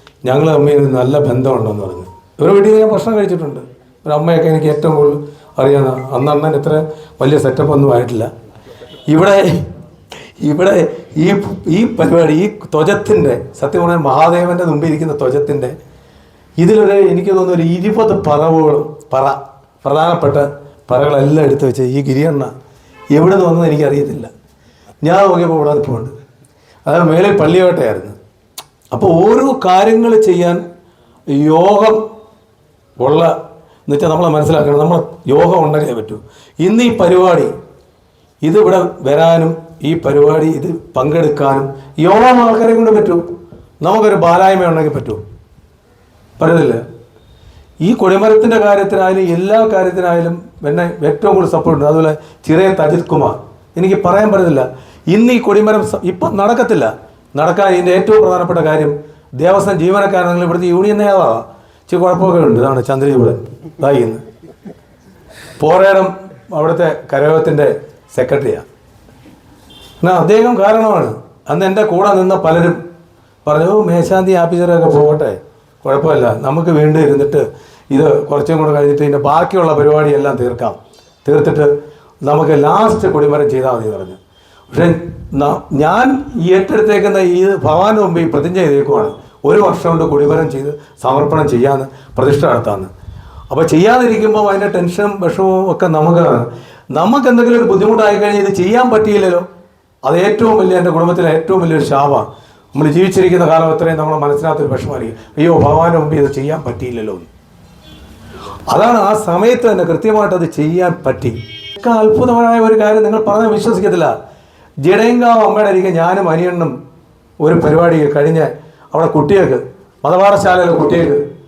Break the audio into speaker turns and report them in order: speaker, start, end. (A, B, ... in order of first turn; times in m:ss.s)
0:00.2-0:08.3 A
0:09.1-0:09.7 A
0:10.4-0:15.8 A
0:16.6-0:22.5 A
0:23.1-0:24.3 A
0:25.0-0:26.1 A
0:26.8-0:28.2 A
0:28.9-0:30.6 A
0:31.3-0:32.0 A
0:33.0-0:33.3 A
0:33.8-0:37.5 A
0:38.4-0:43.2 A
0:43.8-0:45.2 A
0:46.4-0:46.8 A
0:47.8-1:04.2 A
1:05.6-1:08.6 A
1:10.0-1:12.8 A
1:13.4-1:21.7 A
1:22.2-1:24.2 A
1:24.7-1:32.9 A
1:33.5-1:39.4 A
1:40.0-1:47.3 A
1:48.7-1:54.1 A
1:54.8-1:56.7 A
1:57.4-2:01.2 A